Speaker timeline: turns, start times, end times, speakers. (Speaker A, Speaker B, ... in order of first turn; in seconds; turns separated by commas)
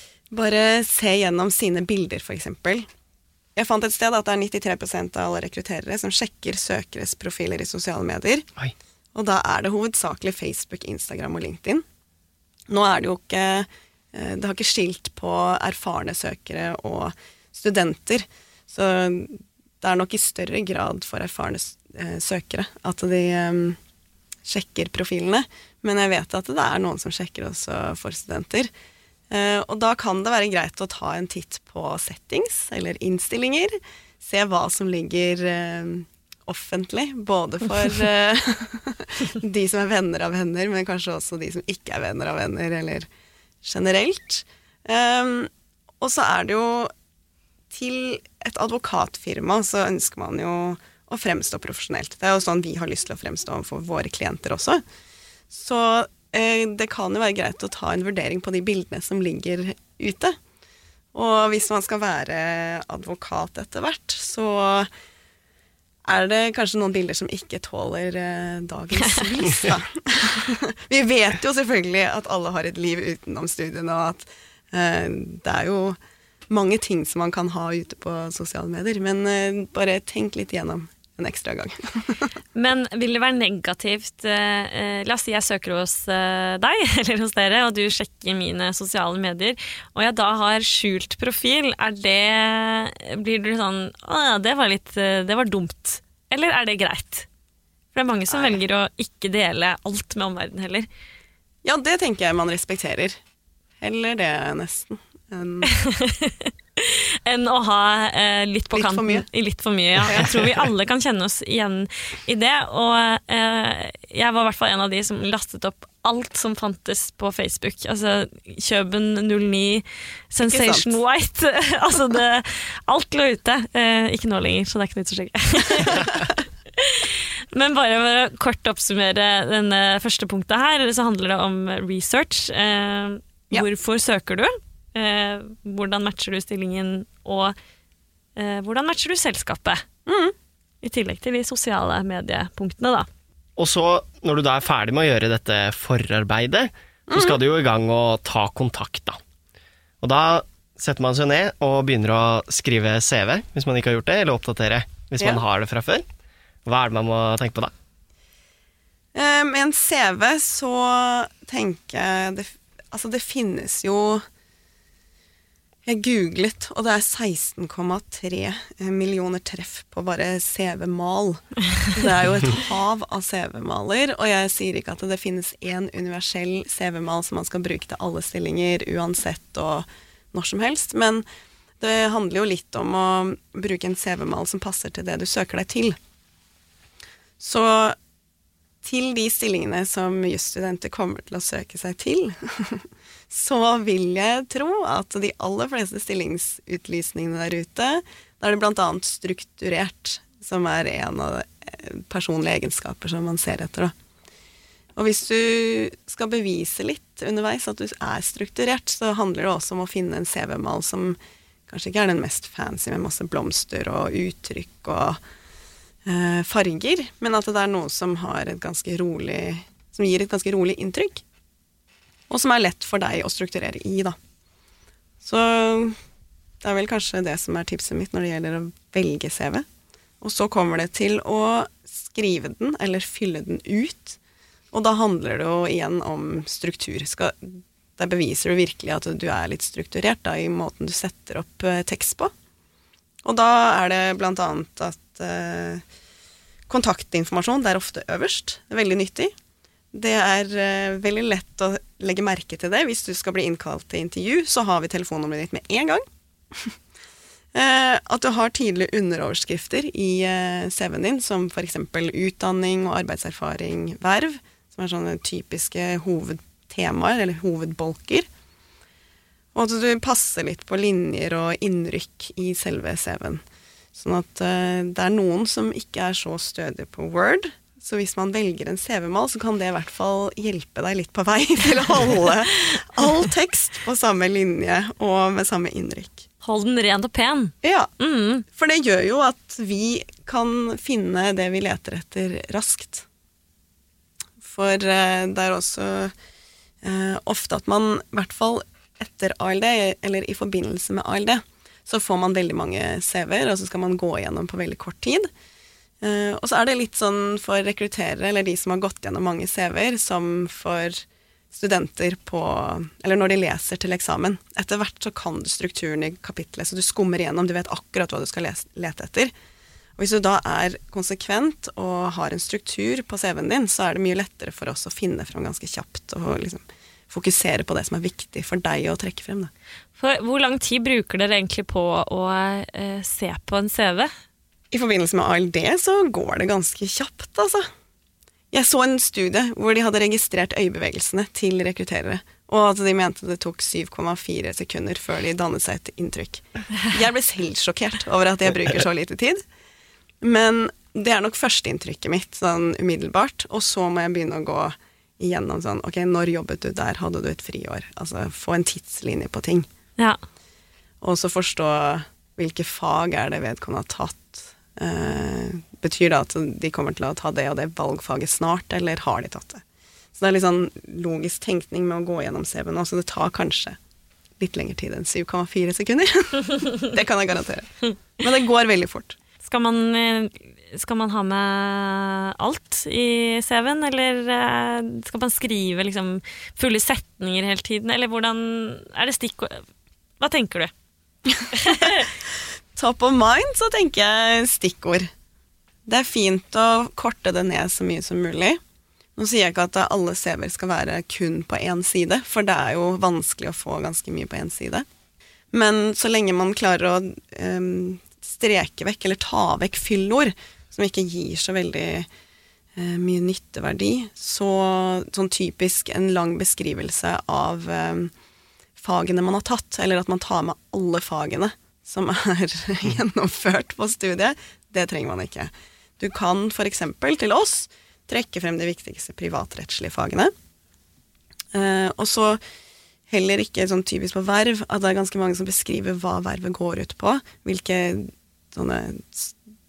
Speaker A: 0.3-2.9, Speaker A: 3.6-8.5, Speaker A: 9.1-11.8, Speaker A: 12.7-23.8, Speaker A: 24.5-28.7, Speaker A: 29.3-43.1, Speaker A: 43.6-46.9, Speaker A: 47.7-54.8, Speaker A: 55.5-60.4, Speaker A: 61.1-64.9, Speaker A: 66.0-76.0, Speaker A: 76.5-82.3, Speaker B: 82.5-97.3, Speaker B: 97.9-100.9, Speaker A: 98.3-98.6, Speaker A: 101.6-103.2, Speaker A: 103.8-105.7, Speaker B: 105.7-137.6, Speaker A: 108.7-109.3, Speaker A: 110.0-110.4, Speaker A: 120.4-121.0, Speaker B: 138.4-139.8, Speaker A: 140.1-140.3, Speaker B: 140.8-143.1, Speaker C: 143.6-149.2, Speaker A: 147.1-147.4, Speaker C: 150.0-156.1, Speaker C: 156.7-157.7, Speaker A: 159.1-164.2, Speaker A: 165.8-181.2, Speaker A: 181.8-186.0, Speaker A: 187.4-188.0, Speaker A: 188.8-203.9, Speaker A: 205.0-215.2, Speaker A: 216.1-221.2, Speaker A: 222.3-224.2, Speaker A: 225.2-226.0, Speaker A: 226.6-229.7, Speaker A: 230.2-234.2, Speaker A: 234.7-242.3, Speaker A: 243.2-245.8, Speaker A: 246.7-249.3, Speaker A: 249.9-256.7, Speaker A: 257.5-268.3, Speaker A: 269.6-273.4, Speaker A: 273.9-286.3, Speaker B: 286.4-288.4, Speaker A: 287.6-287.9, Speaker A: 288.5-293.1, Speaker A: 294.4-296.1, Speaker A: 296.8-305.3, Speaker A: 306.0-319.3, Speaker A: 320.0-329.5, Speaker B: 330.0-334.1, Speaker A: 334.7-337.7, Speaker A: 338.5-349.4, Speaker A: 350.2-359.7, Speaker A: 361.0-369.6, Speaker A: 370.1-373.8, Speaker A: 374.4-379.2, Speaker B: 379.4-389.6, Speaker B: 390.2-390.7, Speaker A: 391.3-391.9, Speaker B: 391.6-392.1, Speaker A: 392.8-395.1, Speaker A: 395.9-398.6, Speaker A: 399.2-404.9, Speaker A: 405.5-412.1, Speaker A: 412.8-418.1, Speaker A: 418.8-430.3, Speaker A: 431.5-432.4, Speaker A: 433.1-439.4